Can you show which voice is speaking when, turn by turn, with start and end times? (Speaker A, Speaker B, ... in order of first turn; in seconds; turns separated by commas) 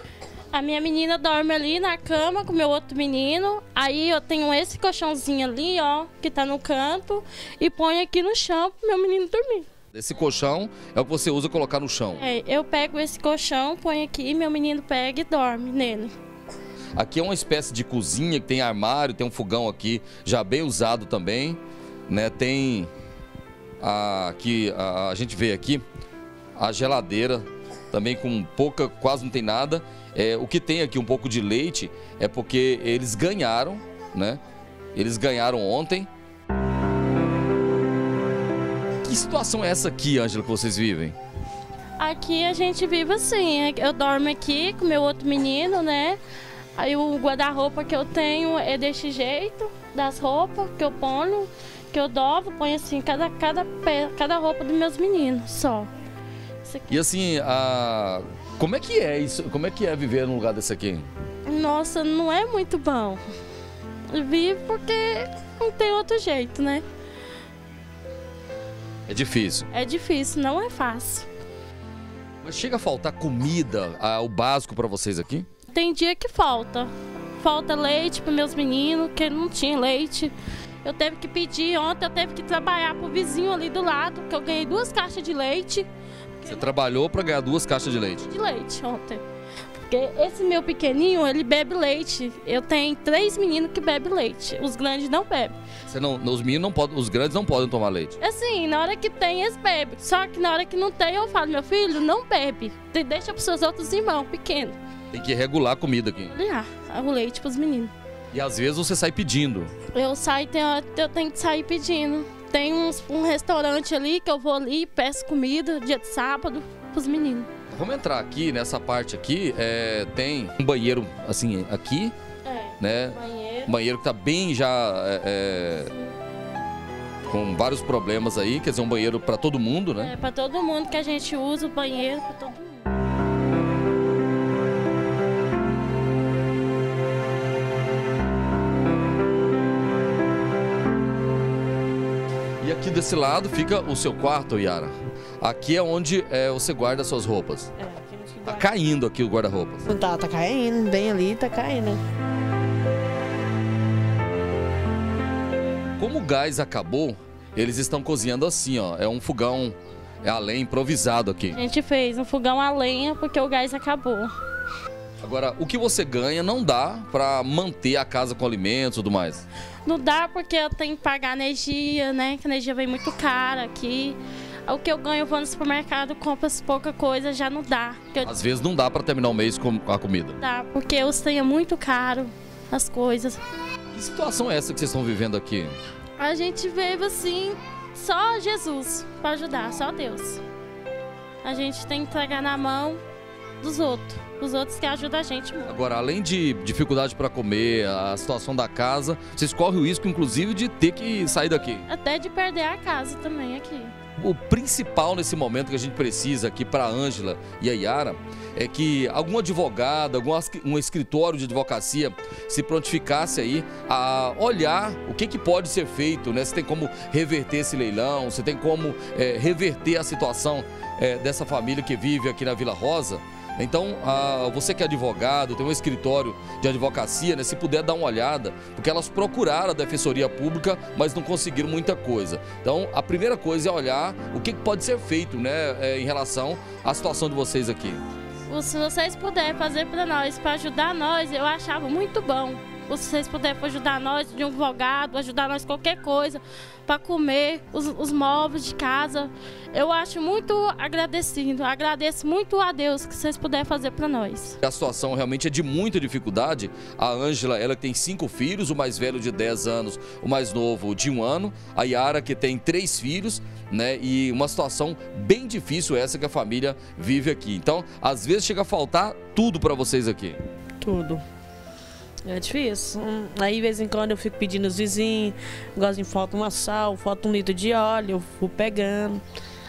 Speaker A: 0.5-9.7, Speaker B: 9.9-12.2, Speaker A: 12.2-16.1, Speaker B: 16.9-22.9, Speaker B: 23.8-25.8, Speaker B: 26.6-34.4, Speaker B: 34.9-36.1, Speaker B: 39.0-41.1, Speaker A: 42.0-46.2, Speaker A: 46.8-55.9, Speaker A: 56.6-57.0, Speaker B: 56.9-61.1, Speaker A: 61.5-63.2, Speaker A: 64.1-66.8, Speaker B: 69.1-69.7, Speaker A: 69.7-71.3, Speaker B: 72.4-75.5, Speaker A: 75.7-85.9, Speaker A: 86.4-86.7, Speaker B: 86.4-88.3, Speaker A: 88.2-89.2, Speaker A: 89.8-95.5, Speaker B: 95.9-98.2, Speaker A: 98.2-104.8, Speaker B: 105.1-106.3, Speaker A: 106.3-107.9, Speaker B: 108.3-109.7, Speaker A: 109.9-117.5, Speaker B: 117.7-122.1, Speaker A: 122.5-123.7, Speaker B: 122.8-125.9, Speaker B: 127.2-130.1, Speaker A: 130.0-132.7, Speaker B: 142.6-147.7, Speaker C: 147.8-148.7, Speaker B: 148.4-149.9, Speaker C: 149.8-152.0, Speaker B: 156.0-161.6, Speaker A: 161.5-164.3, Speaker B: 165.2-169.4, Speaker A: 169.8-178.3, Speaker B: 178.2-180.4, Speaker A: 180.4-183.4, Speaker B: 183.9-185.7, Speaker A: 186.2-190.4, Speaker A: 191.4-193.0, Speaker A: 193.6-195.8, Speaker B: 195.7-201.8, Speaker A: 201.9-203.9, Speaker B: 204.2-238.0, Speaker A: 238.5-254.6, Speaker B: 254.6-270.4, Speaker C: 270.8-271.2, Speaker C: 272.2-279.2